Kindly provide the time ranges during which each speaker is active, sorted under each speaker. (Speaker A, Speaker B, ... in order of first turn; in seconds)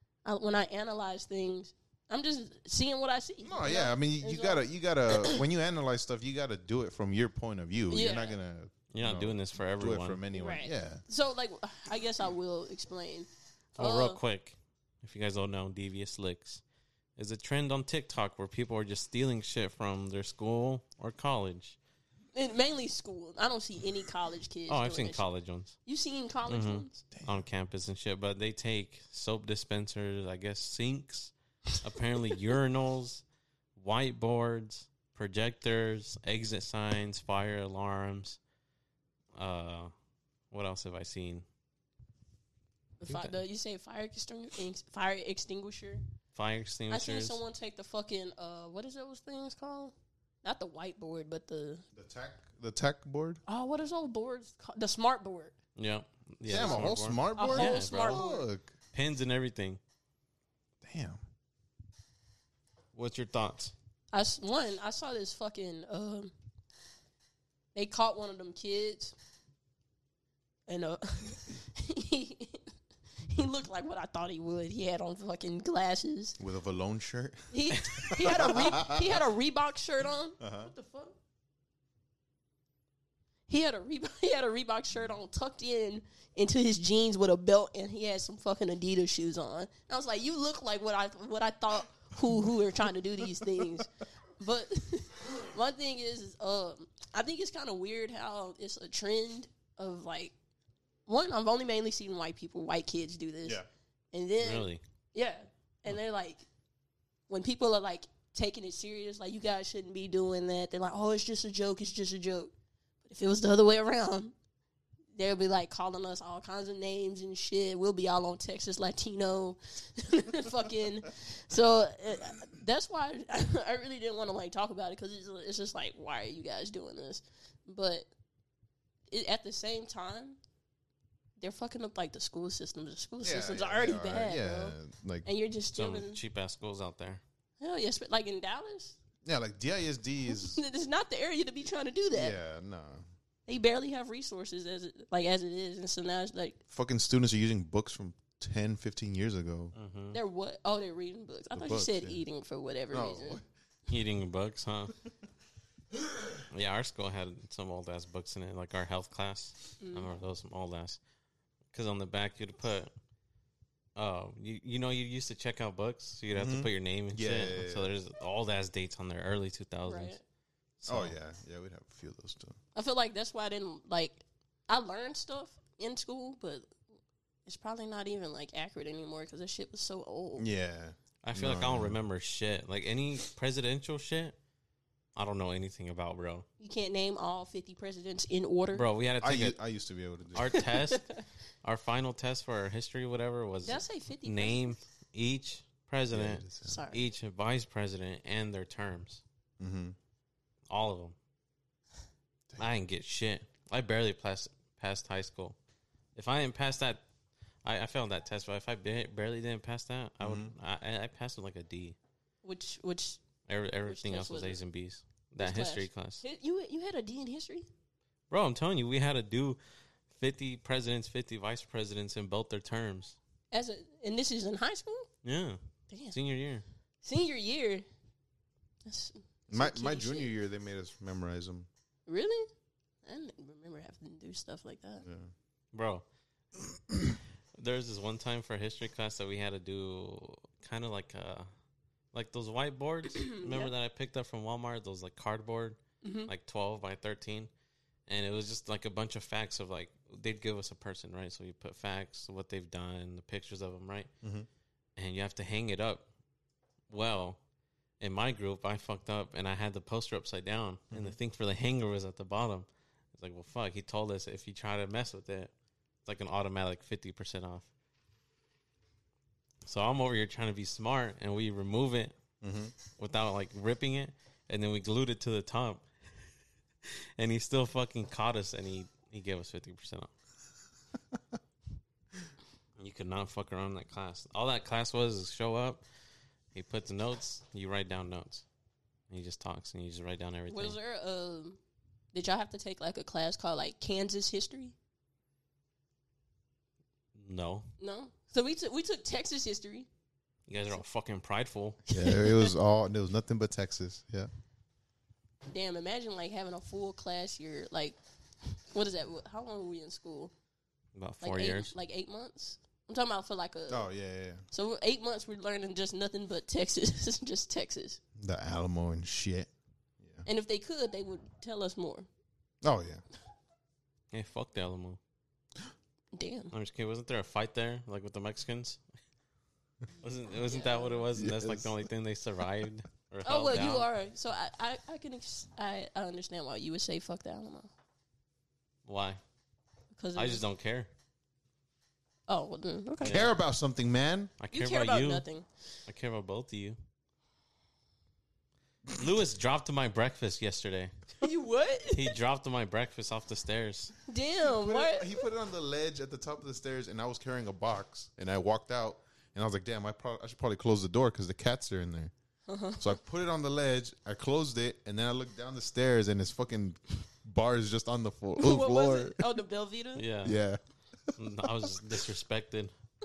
Speaker A: 0.2-5.4, 7.9-8.3, 10.3-14.2, 22.3-25.2, 25.9-27.0, 43.0-46.0, 46.9-51.8, 53.5-55.5, 57.4-58.4, 64.1-66.3, 67.7-69.1, 70.7-72.7, 73.2-76.4, 77.5-81.2, 83.5-100.3, 101.1-103.6, 104.1-106.4, 107.3-112.5, 113.0-114.3, 115.1-128.1, 129.1-130.4, 131.4-136.2, 137.6-139.0, 140.2-142.3, 143.5-146.6, 150.1-153.4, 159.8-160.1, 169.9-170.2, 172.7-176.7, 177.4-180.4, 186.6-188.8, 190.8-191.1, 193.6-194.8, 196.6-197.0, 212.4-213.2, 213.9-214.6, 215.4-217.7, 223.5-225.1, 225.9-226.2, 227.0-227.8, 228.8-230.3, 232.1-232.5, 233.0-235.0, 243.3-243.7, 246.0-246.3, 290.5-291.6, 292.1-294.7, 297.8-299.9, 301.9-302.5, 305.5-308.0, 308.7-310.3, 311.2-313.9, 314.5-318.0, 320.2-322.1, 326.1-326.5, 330.5-331.0, 333.2-337.7, 339.9-340.4, 342.3-343.2, 344.5-345.5, 351.2-352.1, 354.1-355.2, 362.5-362.9, 368.4-370.0
Speaker B: 3.4-11.0, 27.1-27.4, 51.9-53.4, 56.5-58.7, 60.8-61.2, 76.4-79.2, 80.4-80.7, 133.2-135.3, 139.2-140.6, 142.1-143.0, 146.7-149.7, 151.5-152.2, 152.9-153.4, 166.3-167.9, 170.9-172.6, 180.4-182.0, 189.2-190.6, 196.1-196.8, 199.6-200.0, 210.2-210.5, 229.5-231.7, 235.0-235.3, 254.2-254.5, 260.9-261.2, 272.4-272.7, 301.9-304.3, 313.7-314.4, 318.2-319.5, 320.0-320.2, 322.6-323.0, 331.1-331.8, 343.1-344.3, 354.5-362.1, 362.8-369.2, 370.2-371.6
Speaker C: 8.9-10.2, 13.8-16.6, 17.2-21.8, 24.7-25.8, 26.5-33.2, 33.8-38.4, 39.3-39.9, 40.5-41.4, 43.0-43.4, 46.3-47.4, 55.8-58.2, 58.9-59.8, 62.9-63.7, 104.4-104.8, 135.7-137.2, 149.7-150.2, 153.9-154.9, 156.5-161.0, 161.7-162.9, 163.9-170.2, 170.8-171.1, 181.2-184.4, 185.2-186.4, 188.7-189.6, 190.3-191.1, 191.6-199.2, 200.7-201.1, 202.6-205.6, 206.2-207.0, 207.6-211.9, 213.5-216.2, 218.3-219.6, 220.1-223.2, 225.2-226.6, 235.7-236.0, 237.6-241.5, 242.1-247.5, 248.1-254.1, 254.9-256.1, 256.9-257.4, 258.0-265.5, 266.0-267.7, 269.6-272.2, 272.9-275.9, 276.8-280.1, 282.8-285.8, 286.5-288.4, 289.1-290.8, 297.1-297.7, 300.5-301.8, 310.9-311.7, 324.1-325.0, 326.5-328.8, 330.0-333.9, 338.8-339.2, 340.1-340.9, 343.0-343.3, 344.4-345.2, 345.9-346.8, 348.9-351.1, 351.9-353.9, 369.9-370.4, 371.1-372.7